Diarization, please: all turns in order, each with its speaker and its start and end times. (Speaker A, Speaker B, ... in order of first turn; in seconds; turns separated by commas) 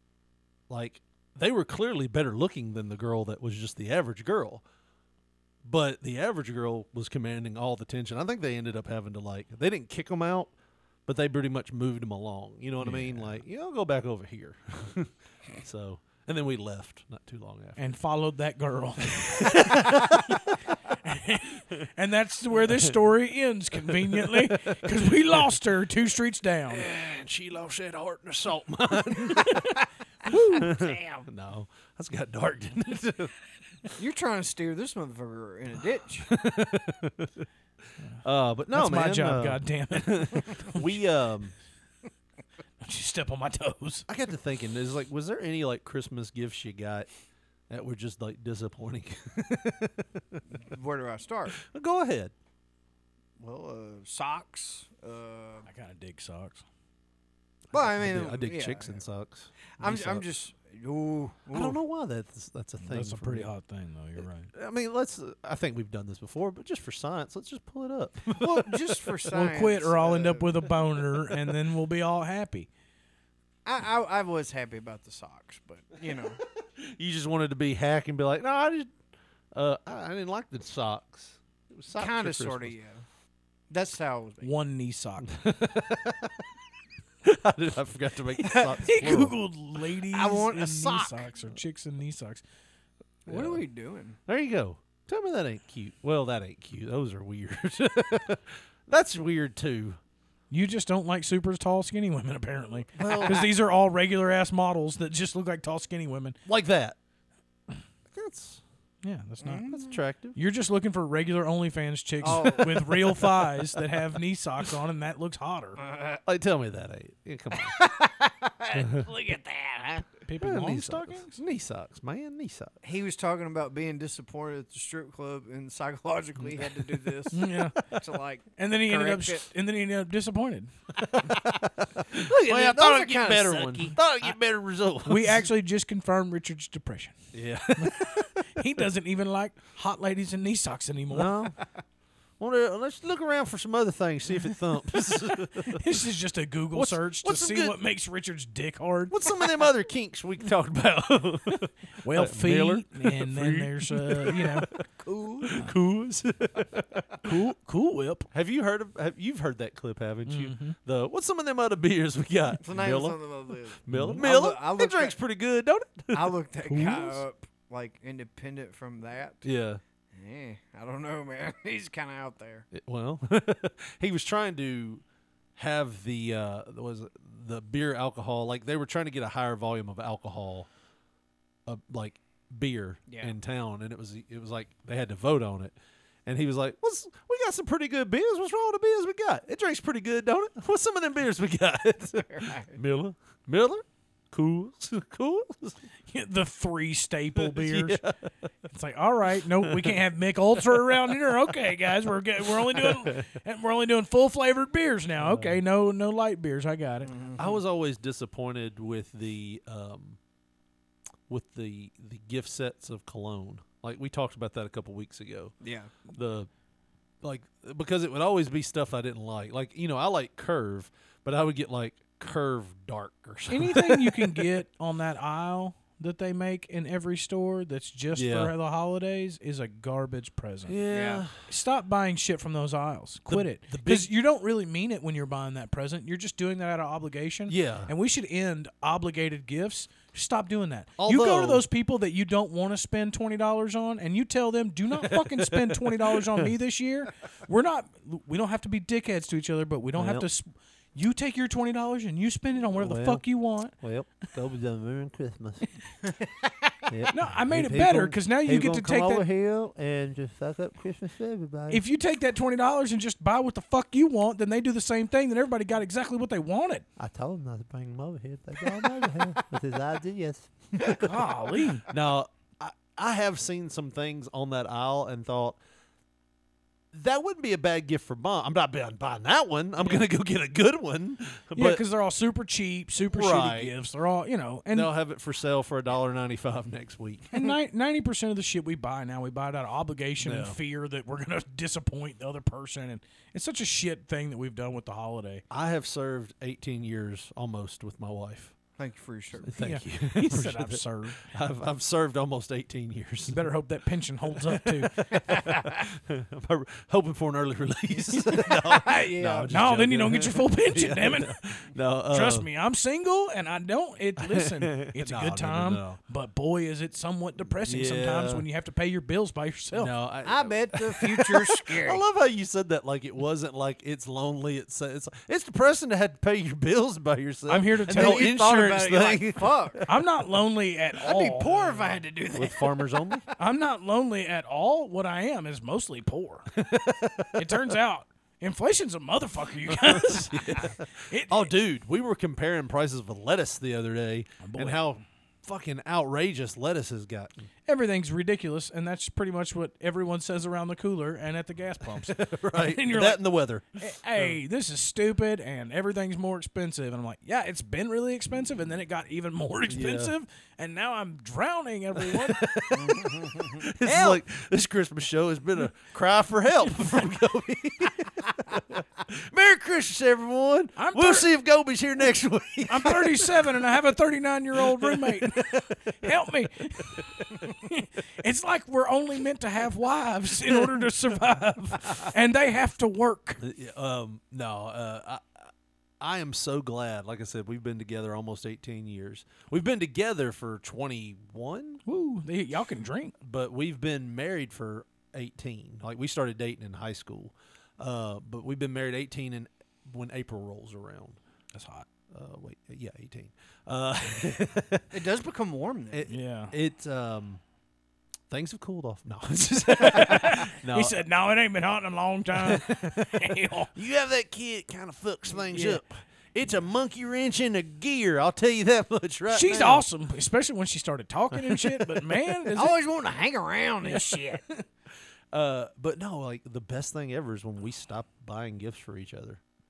Speaker A: 0.7-4.6, Speaker A: 5.6-10.5, Speaker A: 11.1-17.8, Speaker B: 12.8-13.4, Speaker B: 17.8-19.6, Speaker A: 19.0-20.4, Speaker B: 21.0-26.9, Speaker A: 23.9-25.4, Speaker A: 26.7-29.6, Speaker A: 30.3-33.3, Speaker C: 30.6-31.3, Speaker C: 34.0-36.3, Speaker A: 36.3-37.5, Speaker B: 38.0-41.0, Speaker A: 38.2-41.5, Speaker B: 42.8-44.1, Speaker A: 44.1-47.1, Speaker A: 47.7-50.4, Speaker C: 50.5-51.6, Speaker A: 51.6-52.3, Speaker C: 53.4-55.7, Speaker B: 55.7-56.6, Speaker A: 57.7-60.3, Speaker C: 57.7-59.0, Speaker C: 59.8-61.8, Speaker A: 61.5-63.5, Speaker B: 62.8-64.5, Speaker A: 64.5-68.9, Speaker C: 68.3-70.5, Speaker B: 69.3-72.7, Speaker C: 73.6-76.4, Speaker A: 76.8-78.9, Speaker A: 79.5-82.8, Speaker C: 81.9-83.0, Speaker C: 83.7-84.5, Speaker B: 84.4-85.3, Speaker A: 85.2-86.4, Speaker A: 87.2-89.4, Speaker B: 88.4-92.4, Speaker C: 90.1-91.3, Speaker A: 93.2-93.6, Speaker C: 93.3-94.2, Speaker A: 94.3-100.0, Speaker B: 100.5-106.3, Speaker A: 103.0-103.5, Speaker A: 106.5-107.0, Speaker A: 108.1-108.6, Speaker B: 109.0-109.7, Speaker C: 109.4-109.9, Speaker A: 109.7-110.4, Speaker B: 110.3-115.8, Speaker C: 112.2-112.9, Speaker A: 112.2-113.8, Speaker C: 115.8-116.2, Speaker A: 116.2-117.8, Speaker C: 117.5-120.1, Speaker A: 118.8-119.0, Speaker B: 120.3-121.3, Speaker A: 120.4-122.8, Speaker C: 122.8-129.4, Speaker B: 127.3-127.9, Speaker B: 128.6-130.7, Speaker A: 131.0-135.5, Speaker C: 132.2-134.0, Speaker B: 135.1-137.2, Speaker A: 137.3-138.3, Speaker B: 138.6-141.3, Speaker A: 141.1-141.6, Speaker A: 142.4-145.8, Speaker B: 145.7-149.2, Speaker A: 146.7-147.8, Speaker A: 149.1-154.7, Speaker B: 152.0-154.7, Speaker C: 155.0-155.6, Speaker A: 155.4-157.3, Speaker B: 157.2-158.3, Speaker A: 158.3-163.2, Speaker B: 160.2-160.8, Speaker C: 162.6-165.2, Speaker A: 163.8-166.3, Speaker B: 163.9-164.2, Speaker C: 166.1-169.4, Speaker B: 166.7-167.2, Speaker A: 169.4-169.8, Speaker C: 170.1-172.7, Speaker A: 172.7-175.0, Speaker A: 175.6-180.7, Speaker A: 181.7-195.8, Speaker C: 183.1-183.3, Speaker C: 192.2-192.7, Speaker B: 196.1-198.0, Speaker A: 197.3-198.2, Speaker B: 198.7-207.1, Speaker A: 199.6-200.0, Speaker A: 202.6-203.3, Speaker A: 205.2-205.6, Speaker C: 207.0-207.6, Speaker A: 207.4-210.2, Speaker A: 211.3-215.5, Speaker C: 215.6-215.9, Speaker A: 216.1-216.5, Speaker A: 217.2-224.4, Speaker B: 223.5-230.8, Speaker A: 228.1-228.5, Speaker A: 230.7-231.5, Speaker C: 230.9-231.2, Speaker B: 231.5-253.7, Speaker A: 233.3-234.1, Speaker A: 237.5-237.9, Speaker A: 241.0-241.6, Speaker A: 244.9-246.4, Speaker A: 249.9-250.3, Speaker A: 252.8-253.2, Speaker A: 253.8-255.6, Speaker A: 256.9-261.8, Speaker B: 257.1-259.2, Speaker B: 261.7-266.8, Speaker A: 267.0-271.2, Speaker B: 270.9-271.8, Speaker A: 271.9-275.6, Speaker A: 276.9-281.8, Speaker B: 279.8-280.1, Speaker B: 281.6-284.9, Speaker A: 283.1-283.7, Speaker A: 284.7-287.5, Speaker B: 287.3-295.4, Speaker A: 290.2-290.6, Speaker A: 295.5-298.5, Speaker C: 298.8-299.5, Speaker A: 299.4-303.5, Speaker B: 299.6-301.2, Speaker B: 303.3-305.0, Speaker A: 304.5-312.5, Speaker C: 308.6-309.5, Speaker B: 309.5-311.3, Speaker B: 312.1-319.9, Speaker A: 314.2-316.0, Speaker A: 317.6-318.4, Speaker A: 319.7-330.0, Speaker C: 320.2-322.0, Speaker B: 327.5-328.3, Speaker C: 327.9-329.8, Speaker B: 329.9-331.9, Speaker C: 331.0-333.2, Speaker A: 332.3-333.2, Speaker B: 333.4-336.5, Speaker A: 336.5-337.7, Speaker B: 337.4-341.5, Speaker A: 339.7-347.5, Speaker B: 344.4-344.8, Speaker B: 347.7-353.2, Speaker A: 351.9-354.4, Speaker B: 353.8-362.4, Speaker A: 359.7-360.1, Speaker A: 362.0-373.4, Speaker C: 362.7-363.6, Speaker B: 363.8-364.2, Speaker B: 370.8-371.3, Speaker B: 372.7-383.4, Speaker A: 374.6-376.1, Speaker A: 380.5-380.8, Speaker A: 383.4-391.8, Speaker B: 391.9-393.1, Speaker A: 393.2-401.2, Speaker B: 401.5-401.8, Speaker A: 402.1-404.9, Speaker C: 404.9-406.0, Speaker A: 405.9-407.4, Speaker B: 406.1-406.5, Speaker A: 408.3-411.0, Speaker B: 409.8-413.7, Speaker A: 412.4-419.8, Speaker B: 415.5-415.8, Speaker B: 419.3-422.8, Speaker A: 421.3-422.1, Speaker C: 422.5-424.4, Speaker B: 423.8-424.4, Speaker A: 425.3-429.4